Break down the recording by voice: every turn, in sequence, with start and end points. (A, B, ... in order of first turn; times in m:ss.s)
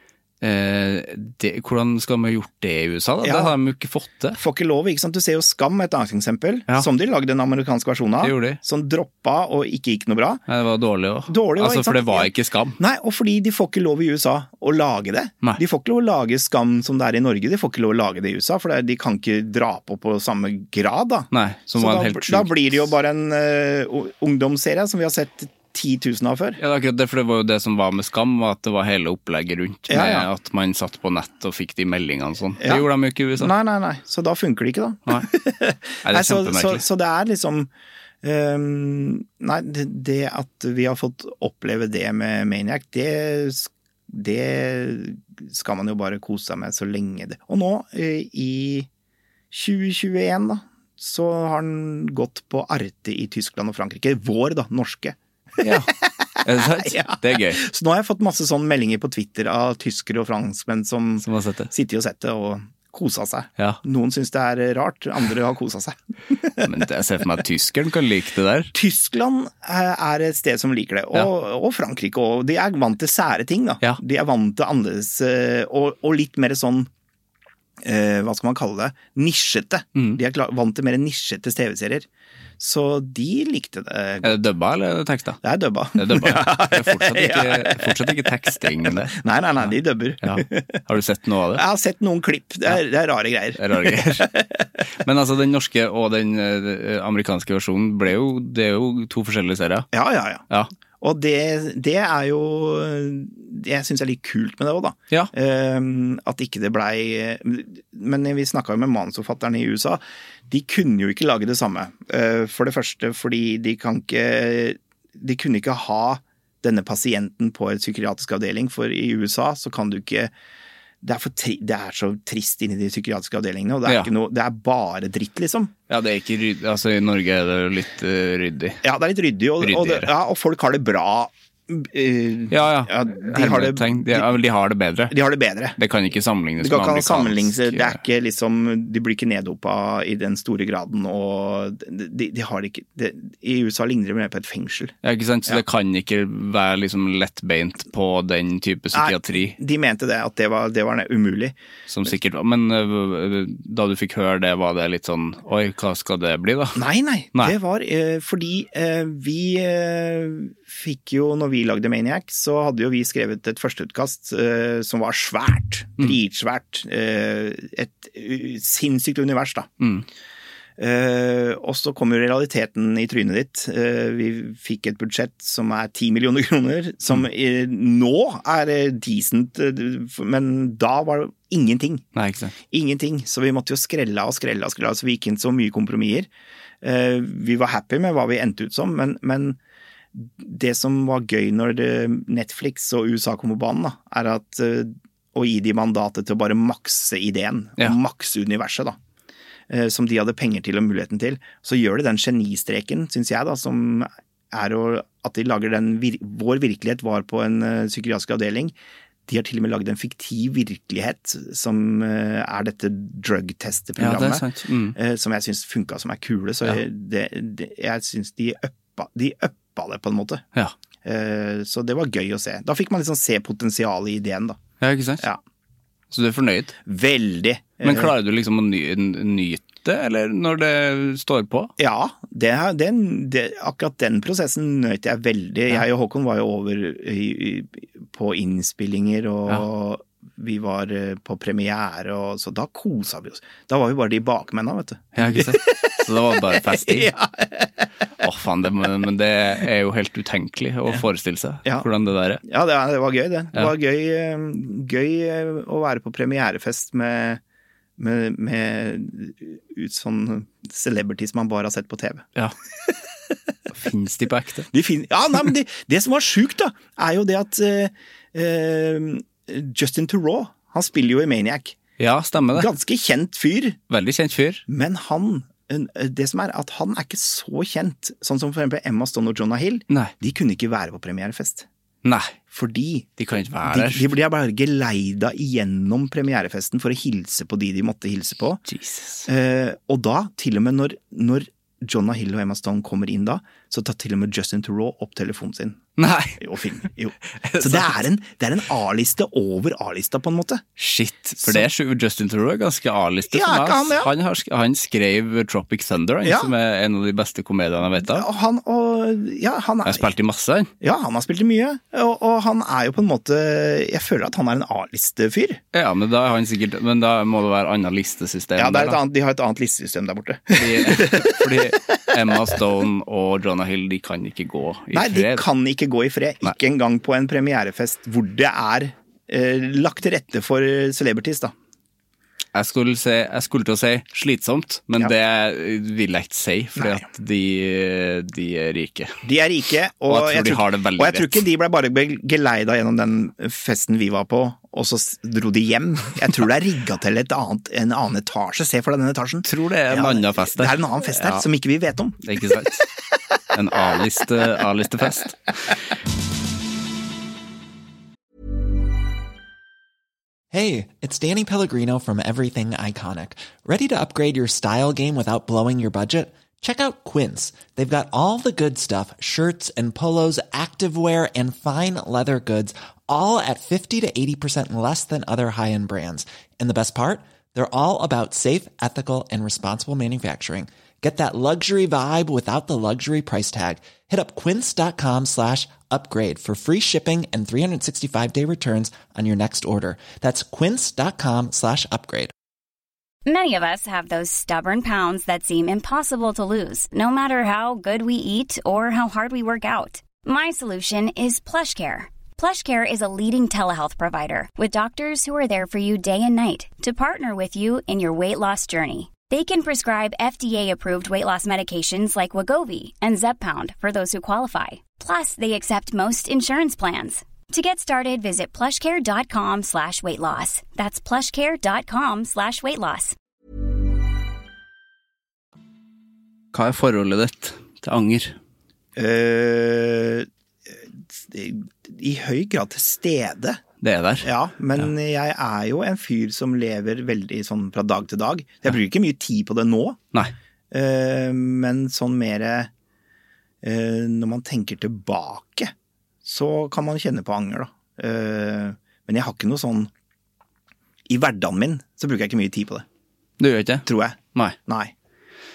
0:00.4-0:04.4 A
0:03.2-0:03.6 B
0:04.3-0:10.4 B
0:08.2-0:08.6 A
0:10.5-0:12.8 A
0:11.3-0:26.6 B
0:21.3-0:22.9 A
0:26.6-0:33.5 A
0:29.9-0:30.3 B
0:32.6-0:37.7 B
0:36.0-0:36.8 A
0:38.2-0:48.9 B
0:49.5-0:55.2 B
0:55.6-0:57.6 A
0:55.9-1:06.6 B
1:01.2-1:01.7 A
1:06.6-1:08.7 A
1:08.7-1:16.9 B
1:17.8-1:22.1 B
1:22.6-1:24.4 B
1:24.2-1:25.4 A
1:25.4-1:30.8 B
1:25.9-1:29.7 A
1:30.2-1:31.6 A
1:31.5-1:34.6 B
1:33.6-1:34.3 A
1:35.0-1:39.9 A
1:39.9-1:40.4 B
1:41.0-2:00.3 B
2:01.0-2:05.7 B
2:03.8-2:04.1 A
2:05.9-2:08.8 A
2:08.8-2:14.3 B
2:09.6-2:10.1 A
2:12.5-2:15.1 A
2:15.1-2:15.8 B
2:15.8-2:18.0 A
2:16.6-2:24.9 B
2:25.0-2:29.6 A
2:28.9-2:31.6 B
2:31.9-2:36.8 A
2:36.7-2:49.7 B
2:49.8-2:50.0 A
2:50.8-3:02.0 B
3:02.1-3:02.5 A
3:02.6-3:06.3 B
3:06.8-3:09.6 B
3:10.1-3:19.0 B
3:19.7-3:28.7 B
3:29.3-3:40.4 B
3:34.0-3:35.0 A
3:41.0-3:44.6 B
3:44.8-3:45.2 A
3:46.1-3:46.8 A
3:46.8-3:48.1 B
3:47.8-3:51.7 A
3:51.8-4:07.9 B
4:05.1-4:07.1 A
4:08.2-4:12.4 A
4:12.4-4:17.4 B
4:18.0-4:22.3 B
4:23.7-4:24.7 A
4:24.7-4:31.8 B
4:32.0-4:32.7 A
4:32.5-4:33.8 B
4:33.9-4:34.6 A
4:34.7-4:41.6 B
4:42.0-4:42.3 A
4:42.5-4:48.6 B
4:43.2-4:44.1 A
4:48.7-4:49.3 A
4:49.2-4:55.8 B
4:56.0-4:56.4 A
4:56.4-5:00.6 B
4:57.4-4:58.0 A
5:00.8-5:08.3 A
5:01.4-5:01.6 B
5:03.3-5:04.1 B
5:06.2-5:06.5 B
5:07.9-5:10.1 B
5:09.8-5:10.7 A
5:10.8-5:15.6 B
5:15.7-5:19.0 A
5:18.6-5:21.8 B
5:20.5-5:25.4 A
5:24.9-5:31.5 B
5:32.5-5:39.2 A
5:36.8-5:37.0 B
5:39.2-5:52.2 B
5:40.1-5:41.4 A
5:49.4-5:51.4 A
5:52.2-5:52.9 A
5:53.5-5:55.8 A
6:00.5-6:32.3 C
6:33.2-7:03.2 D
7:06.5-7:08.4 A
7:09.0-7:13.6 B
7:13.8-7:14.3 A
7:14.2-7:20.0 B
7:20.7-7:22.7 B
7:23.6-7:25.7 B
7:26.2-7:29.9 B
7:31.1-7:32.8 B
7:33.4-7:34.6 A
7:33.8-7:34.9 B